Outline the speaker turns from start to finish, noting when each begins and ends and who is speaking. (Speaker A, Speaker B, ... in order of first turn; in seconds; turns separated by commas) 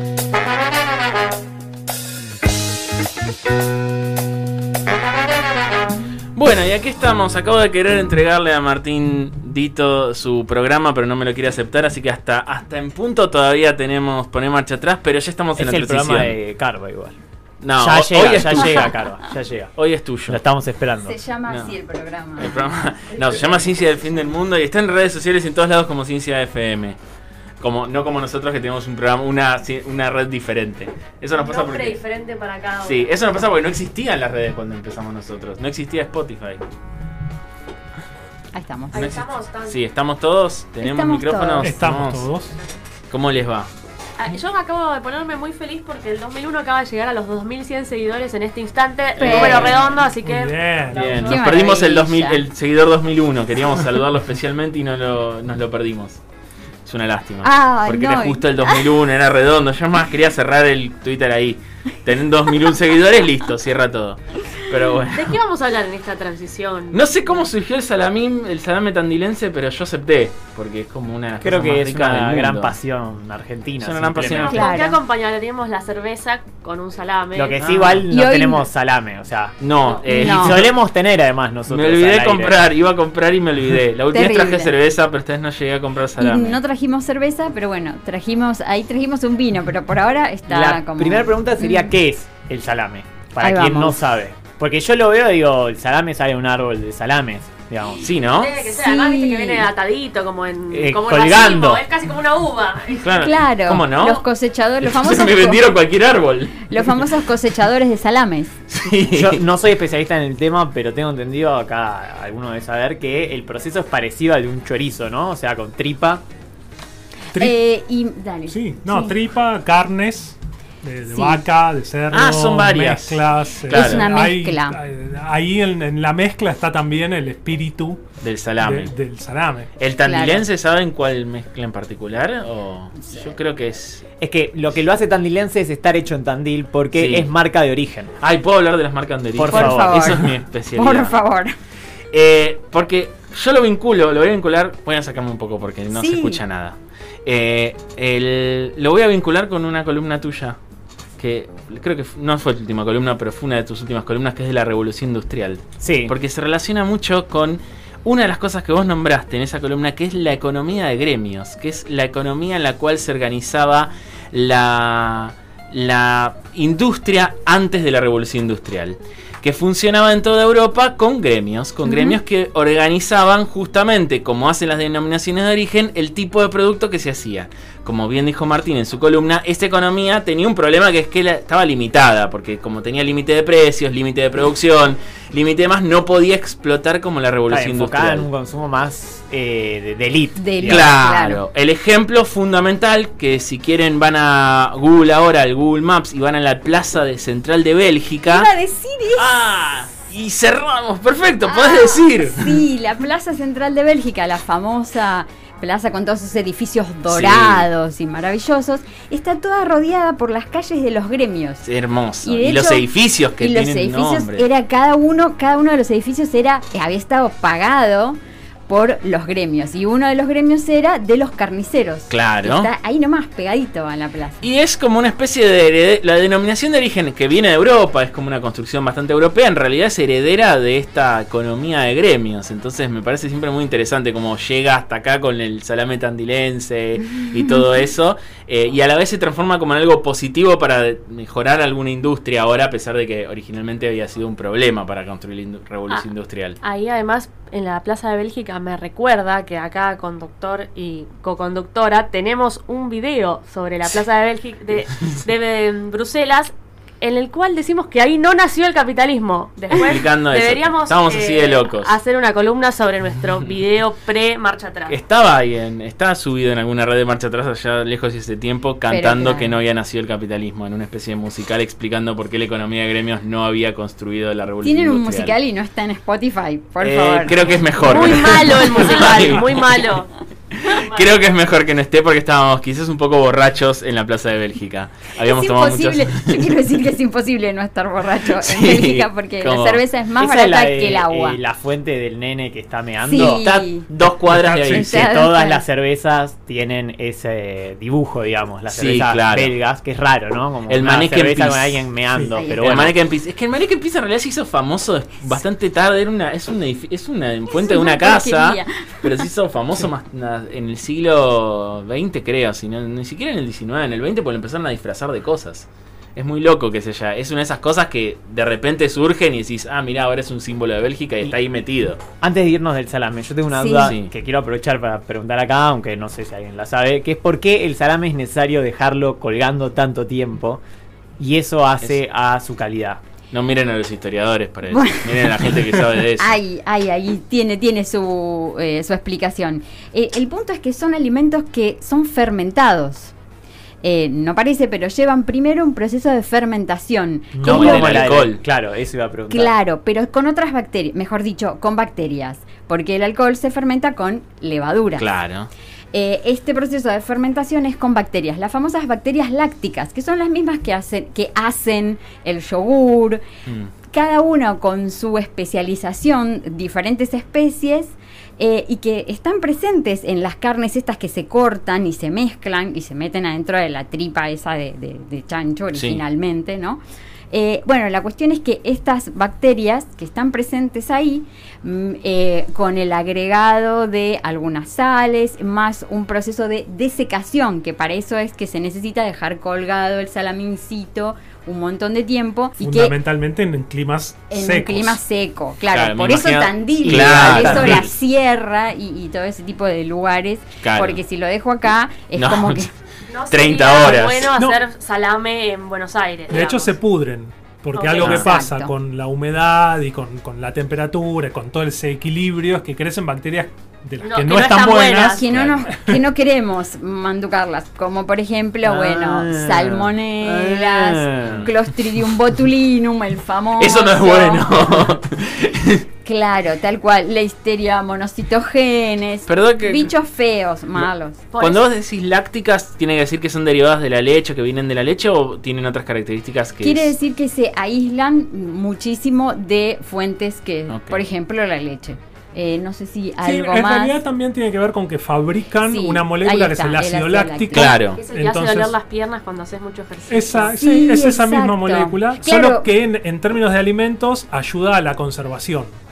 Speaker A: 6.3-16.4, Speaker B: 15.6-17.1, Speaker A: 17.6-18.9, Speaker B: 17.8-19.7, Speaker A: 19.8-20.4, Speaker B: 20.3-21.1, Speaker C: 21.0-22.7, Speaker A: 21.5-21.7, Speaker A: 22.4-27.0, Speaker A: 27.6-32.0, Speaker D: 31.3-33.1, Speaker A: 32.8-36.6, Speaker C: 38.5-39.1, Speaker D: 38.9-39.8, Speaker A: 38.9-42.3, Speaker C: 40.8-41.7, Speaker E: 41.6-42.5, Speaker A: 43.1-43.7, Speaker D: 44.2-51.6, Speaker C: 49.2-50.0, Speaker E: 49.4-51.3, Speaker A: 50.9-56.2, Speaker C: 51.1-52.4, Speaker A: 56.8-65.3, Speaker C: 57.4-58.9, Speaker D: 65.1-67.0, Speaker A: 66.9-72.8, Speaker B: 71.4-74.5, Speaker A: 73.8-74.7, Speaker D: 74.3-77.6, Speaker C: 74.4-75.0, Speaker B: 77.3-82.6, Speaker A: 77.6-78.0, Speaker C: 78.1-78.7, Speaker A: 79.6-80.8, Speaker D: 79.8-80.1, Speaker C: 80.1-80.6, Speaker A: 81.7-86.6, Speaker C: 84.1-84.7, Speaker C: 86.2-91.9, Speaker B: 90.5-98.1, Speaker C: 93.4-94.0, Speaker A: 98.0-98.5, Speaker D: 98.3-103.1, Speaker C: 98.6-99.7, Speaker B: 100.7-101.8, Speaker A: 103.0-104.3, Speaker C: 103.2-105.8, Speaker A: 104.8-106.8, Speaker C: 106.7-108.5, Speaker A: 108.7-109.4, Speaker B: 109.1-116.2, Speaker C: 117.4-119.1, Speaker E: 118.5-128.0, Speaker C: 121.1-121.4, Speaker A: 122.1-124.1, Speaker C: 123.7-124.7, Speaker A: 128.2-128.9, Speaker E: 128.6-129.7, Speaker A: 129.8-134.0, Speaker C: 130.0-130.4, Speaker B: 134.2-138.1, Speaker A: 136.9-137.3, Speaker A: 138.2-141.2, Speaker B: 139.3-140.2, Speaker C: 139.5-141.5, Speaker A: 142.1-150.6, Speaker C: 145.9-146.4, Speaker A: 151.2-188.3, Speaker B: 155.8-156.1, Speaker C: 171.8-172.2, Speaker B: 187.5-190.9, Speaker C: 190.4-191.4, Speaker A: 190.7-198.5, Speaker C: 198.3-199.4, Speaker A: 199.2-202.6, Speaker C: 201.4-211.6, Speaker A: 207.1-207.7, Speaker A: 211.6-214.4, Speaker C: 212.2-224.4, Speaker A: 222.1-222.7, Speaker A: 224.4-246.6, Speaker D: 246.6-265.0, Speaker A: 259.7-261.9, Speaker A: 264.9-275.3, Speaker C: 268.9-269.5, Speaker C: 274.6-278.6, Speaker A: 276.8-279.7, Speaker D: 277.8-280.1, Speaker A: 280.6-286.5, Speaker D: 280.6-281.2, Speaker C: 285.2-291.4, Speaker A: 288.2-289.8, Speaker B: 290.2-293.7, Speaker C: 293.0-293.9, Speaker A: 293.9-294.9, Speaker E: 294.3-294.9, Speaker C: 294.6-295.6, Speaker B: 294.8-302.9, Speaker A: 298.7-299.5, Speaker A: 300.7-301.9, Speaker C: 302.3-302.9, Speaker A: 302.6-322.0, Speaker C: 307.5-309.2, Speaker B: 322.2-330.6, Speaker C: 323.5-323.9, Speaker A: 323.8-324.1, Speaker B: 331.2-333.0, Speaker A: 333.3-336.4, Speaker C: 334.7-335.5, Speaker C: 336.2-343.1, Speaker C: 343.8-348.0, Speaker B: 347.3-349.5, Speaker A: 347.4-348.4, Speaker C: 349.3-355.1, Speaker A: 355.0-355.5, Speaker C: 355.9-363.2, Speaker C: 363.9-392.9, Speaker A: 375.7-376.0, Speaker E: 392.6-395.0, Speaker C: 394.3-402.7, Speaker A: 395.7-397.9, Speaker A: 400.6-401.0, Speaker A: 402.1-402.7, Speaker D: 403.1-406.7, Speaker A: 403.3-404.3, Speaker E: 406.3-416.0, Speaker D: 407.7-408.1, Speaker A: 408.0-408.3, Speaker C: 408.1-408.7, Speaker D: 414.0-415.2, Speaker C: 415.1-424.5, Speaker A: 415.3-415.6, Speaker B: 418.6-421.5, Speaker A: 421.2-421.5, Speaker A: 423.6-425.8, Speaker C: 426.0-431.2, Speaker A: 429.2-429.9, Speaker A: 430.8-436.9, Speaker D: 431.3-431.7, Speaker C: 436.6-444.0, Speaker A: 440.7-441.0, Speaker E: 443.2-448.7, Speaker C: 445.6-447.8, Speaker A: 447.5-448.0, Speaker D: 447.8-450.5, Speaker E: 450.1-455.8, Speaker C: 450.4-452.6